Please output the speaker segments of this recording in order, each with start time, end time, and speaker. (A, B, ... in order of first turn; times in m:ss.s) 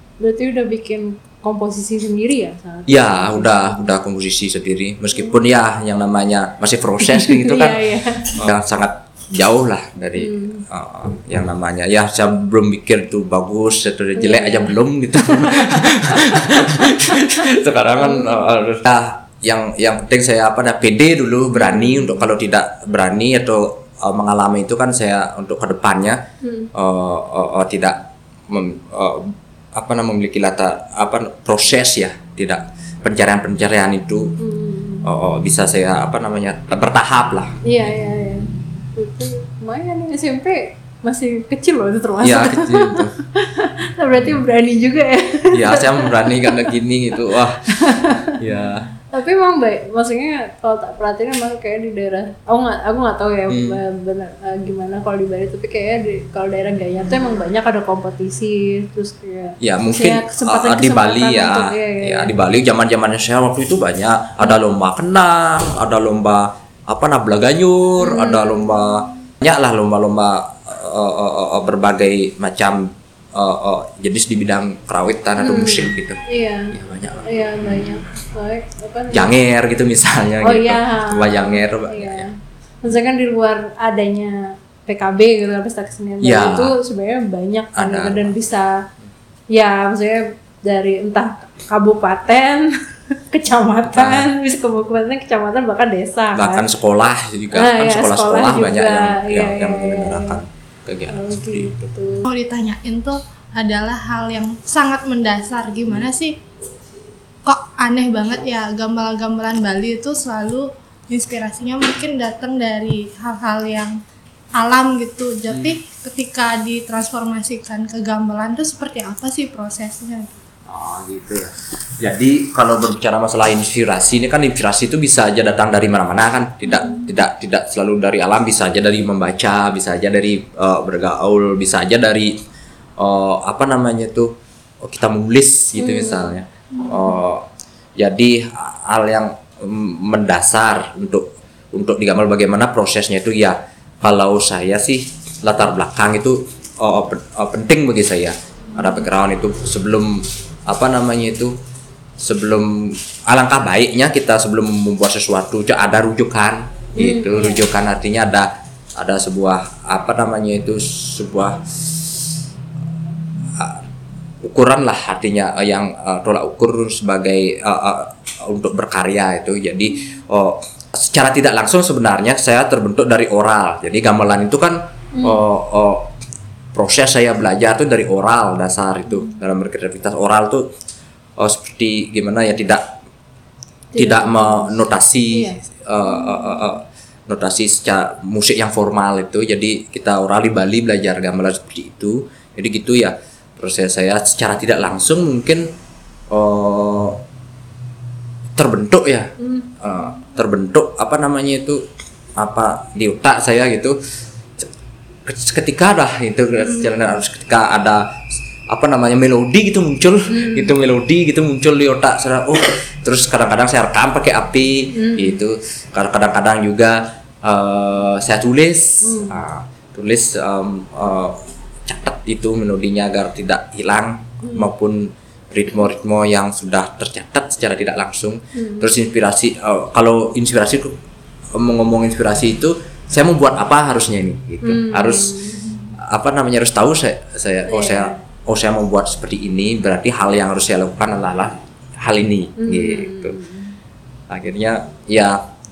0:00.2-0:03.8 A
0:02.9-0:07.8 B
0:07.0-0:08.3 A
0:08.4-0:26.2 B
0:10.2-0:10.6 A
0:14.2-0:18.5 A
0:21.6-0:22.2 A
0:26.4-0:26.7 A
0:26.7-0:34.3 B
0:34.4-0:35.1 A
0:35.0-0:37.6 B
0:37.6-0:46.7 A
0:42.2-0:43.1 B
0:45.5-0:48.9 B
0:47.7-0:48.3 A
0:49.1-1:02.3 A
0:53.5-0:53.8 B
0:59.6-1:16.2 B
1:08.0-1:08.8 A
1:15.4-1:19.3 A
1:16.7-1:17.9 B
1:19.1-1:22.3 B
1:20.4-1:22.3 A
1:22.8-1:28.8 A
1:26.2-1:26.8 B
1:27.7-1:28.3 B
1:29.5-1:36.7 A
1:33.9-1:34.3 B
1:36.3-1:41.7 B
1:37.5-1:40.4 A
1:41.1-1:42.3 A
1:42.3-1:46.4 C
1:47.4-1:54.0 C
1:54.6-2:00.4 C
1:55.5-1:55.8 B
2:00.7-2:12.3 B
2:13.0-2:17.4 B
2:15.8-2:16.4 A
2:18.0-2:31.5 B
2:32.2-2:42.2 B
2:37.0-2:37.7 A
2:43.6-2:43.8 B
2:44.4-2:56.1 B
2:55.1-2:55.4 A
2:56.7-3:00.6 B
3:01.4-3:02.9 B
3:03.9-3:04.8 A
3:04.0-3:15.7 B
3:05.3-3:05.6 A
3:16.3-3:17.2 B
3:18.6-3:21.8 B
3:19.4-3:19.7 A
3:22.4-3:24.0 B
3:25.2-3:28.2 B
3:26.7-3:27.1 A
3:28.7-3:50.9 B
3:30.3-3:30.7 A
3:35.0-3:35.4 A
3:39.0-3:39.4 A
3:44.4-3:44.7 A
3:48.6-3:48.9 A
3:51.6-3:55.4 B
3:54.6-3:55.7 A
3:56.0-4:03.4 B
3:57.7-3:58.2 A
4:02.6-4:03.7 A
4:04.3-4:05.4 B